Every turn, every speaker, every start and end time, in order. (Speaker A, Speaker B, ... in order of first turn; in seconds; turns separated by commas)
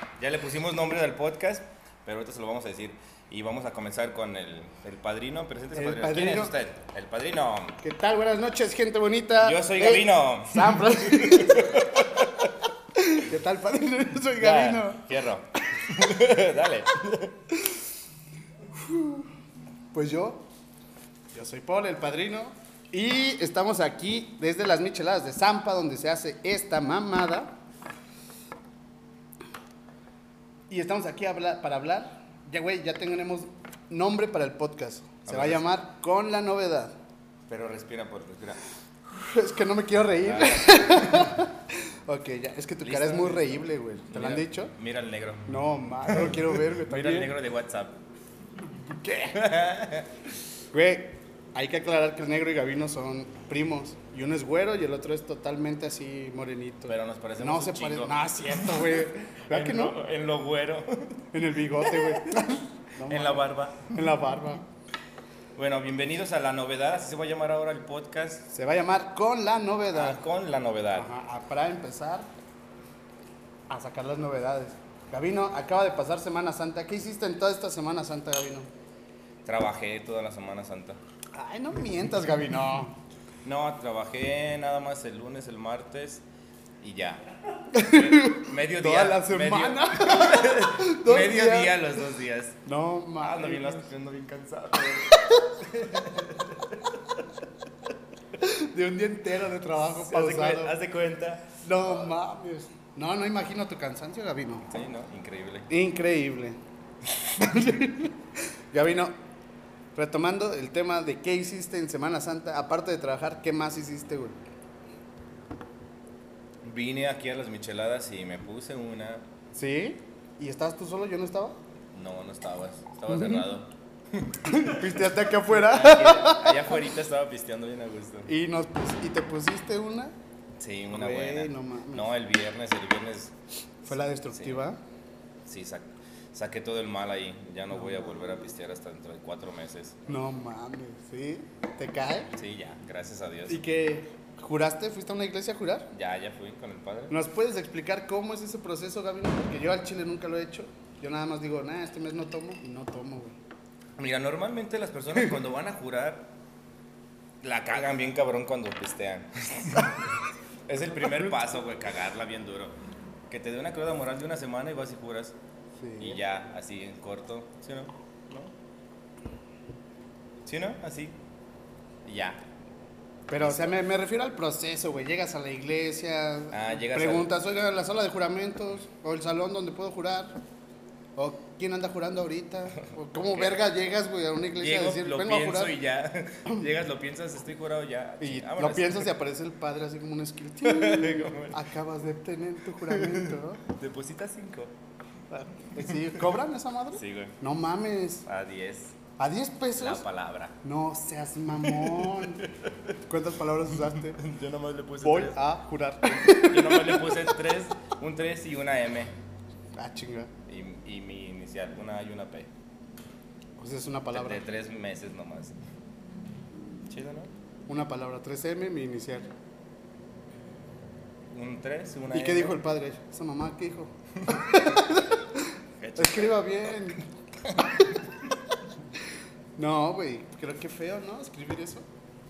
Speaker A: 0.2-7.8, Speaker B: 5.7-6.5, Speaker B: 7.8-15.1, Speaker A: 9.4-12.6, Speaker A: 14.3-17.3, Speaker B: 17.5-17.8, Speaker B: 18.7-19.3, Speaker B: 19.9-20.4, Speaker B: 21.3-27.6, Speaker B: 30.7-37.0, Speaker A: 35.3-35.6, Speaker A: 37.5-38.6, Speaker B: 39.1-44.7, Speaker A: 40.2-41.4, Speaker A: 42.8-45.5, Speaker B: 45.5-47.3, Speaker A: 46.0-48.0, Speaker B: 48.9-49.5, Speaker A: 49.3-50.1, Speaker B: 50.7-60.0, Speaker A: 56.9-62.4, Speaker B: 61.3-64.6, Speaker A: 63.0-64.1, Speaker A: 65.5-68.5, Speaker B: 68.5-70.2, Speaker A: 69.9-71.1, Speaker B: 70.9-72.3, Speaker B: 73.7-78.7, Speaker A: 79.4-81.0, Speaker B: 81.3-83.0, Speaker A: 83.4-86.2, Speaker A: 86.8-92.6, Speaker B: 87.7-91.9, Speaker B: 92.6-93.9, Speaker A: 93.2-97.0, Speaker B: 95.1-95.4, Speaker B: 98.4-100.8, Speaker A: 99.8-102.1, Speaker B: 101.6-104.7, Speaker A: 104.7-105.7, Speaker B: 105.7-106.6, Speaker B: 107.2-108.1, Speaker B: 108.7-109.1, Speaker B: 109.9-114.4, Speaker A: 116.6-119.3, Speaker B: 119.5-121.6, Speaker A: 121.9-128.3, Speaker B: 123.1-123.5, Speaker B: 124.5-126.8, Speaker B: 128.3-130.1, Speaker A: 130.6-133.3, Speaker B: 130.9-132.1, Speaker B: 133.8-134.8, Speaker A: 134.3-134.7, Speaker A: 135.4-140.1, Speaker B: 137.8-138.2, Speaker B: 140.1-142.3, Speaker A: 142.3-143.6, Speaker B: 143.5-145.9, Speaker A: 145.9-147.1, Speaker B: 147.1-153.4, Speaker A: 154.0-156.3, Speaker A: 157.4-160.1, Speaker A: 160.7-162.8, Speaker A: 163.3-165.4, Speaker B: 165.8-166.2, Speaker A: 166.0-168.5, Speaker A: 170.4-171.2, Speaker A: 172.1-172.4, Speaker B: 173.3-180.4, Speaker A: 173.4-173.8, Speaker A: 176.5-177.3, Speaker B: 181.2-185.8, Speaker A: 183.2-183.6, Speaker A: 184.6-189.1, Speaker B: 188.2-193.6, Speaker A: 190.6-191.6, Speaker A: 192.8-194.7, Speaker B: 195.6-198.2, Speaker A: 195.8-196.2, Speaker A: 196.9-197.4, Speaker A: 198.2-199.0, Speaker B: 199.2-200.0, Speaker A: 199.8-200.6, Speaker B: 200.6-202.4, Speaker A: 201.5-202.7, Speaker B: 203.1-204.2, Speaker A: 203.7-205.4, Speaker B: 205.0-207.4, Speaker A: 206.1-209.1, Speaker B: 209.8-210.3, Speaker A: 210.5-212.5, Speaker B: 213.6-214.4, Speaker A: 214.1-215.6, Speaker A: 216.9-217.3, Speaker B: 217.7-219.3, Speaker A: 221.3-222.6, Speaker B: 222.1-227.0, Speaker A: 225.8-226.5, Speaker B: 229.6-231.9